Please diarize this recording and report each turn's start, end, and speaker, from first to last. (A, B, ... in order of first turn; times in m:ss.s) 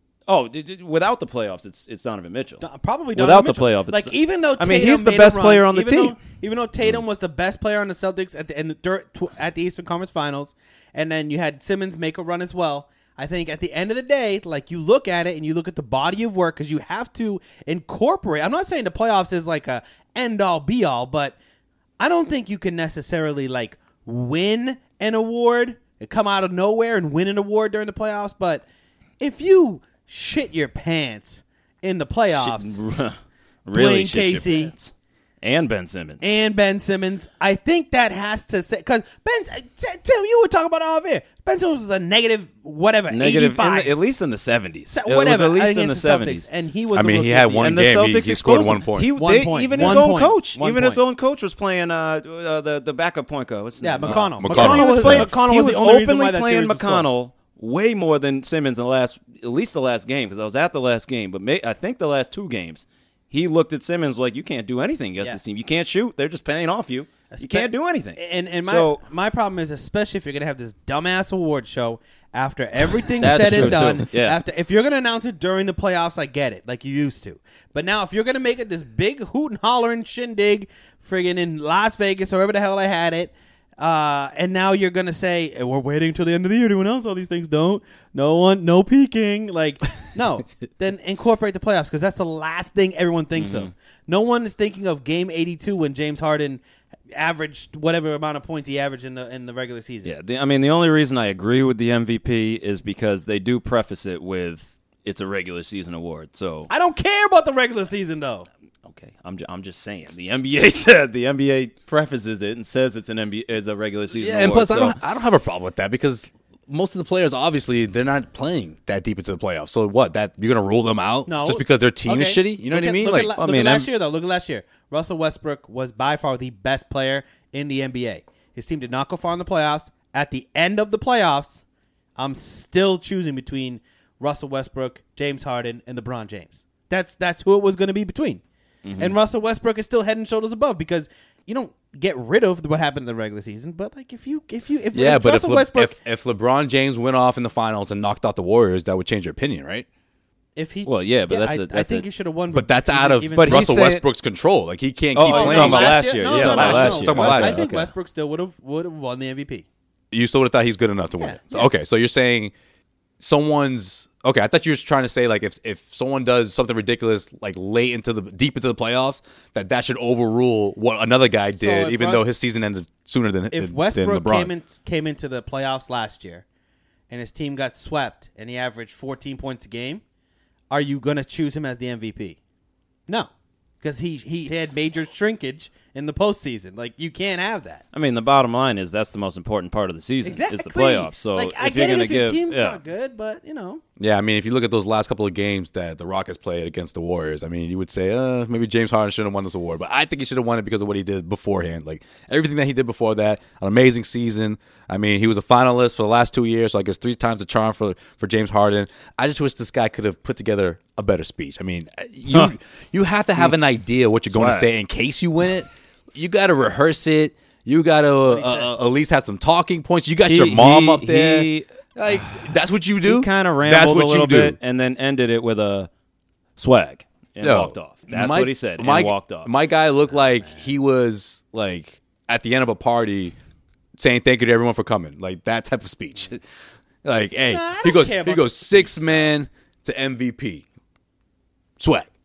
0:00.3-0:02.6 A
0:02.6-0:21.4 B
0:03.2-0:06.2 A
0:22.0-0:28.6 B
0:29.2-0:32.8 B
0:32.3-0:36.3 A
0:33.7-0:34.7 B
0:36.2-0:44.0 B
0:43.1-0:46.5 A
0:44.9-0:47.8 B
0:46.9-0:49.1 C
0:47.6-1:09.0 A
0:49.2-0:51.0 B
0:49.8-0:50.0 C
0:53.8-0:57.1 B
0:54.0-0:55.3 C
1:07.3-1:36.6 B
1:13.2-1:14.4 A
1:13.4-1:14.0 C
1:33.4-1:33.7 A
1:37.1-1:40.1 B
1:40.0-1:46.7 A
1:46.7-1:48.5 B
1:48.8-1:55.0 A
1:54.1-2:03.4 C
2:01.3-2:11.6 B
2:03.4-2:03.9 A
2:12.2-2:18.4 B
2:18.8-2:19.2 A
2:19.0-2:26.0 B
2:24.9-2:29.9 C
2:30.6-2:33.8 B
2:30.9-2:32.1 A
2:32.5-2:37.6 C
2:33.4-2:34.0 A
2:35.1-2:37.9 A
2:35.2-2:39.7 B
2:40.1-2:42.5 C
2:41.2-2:41.8 B
2:43.2-2:54.5 C
2:51.5-2:52.3 B
2:53.5-2:56.4 B
2:57.1-3:00.0 B
3:00.7-3:02.4 B
3:03.8-3:07.8 B
3:07.9-3:12.8 A
3:10.2-3:13.8 B
3:14.0-3:44.6 C
3:32.3-3:32.6 A
3:34.3-3:34.7 A
3:38.3-3:38.7 B
3:40.3-3:42.5 A
3:43.0-3:45.9 A
3:46.6-3:49.5 A
3:47.4-3:53.4 C
3:54.0-3:56.4 C
3:57.0-4:00.6 C
3:57.4-3:59.3 B
4:01.8-4:02.1 C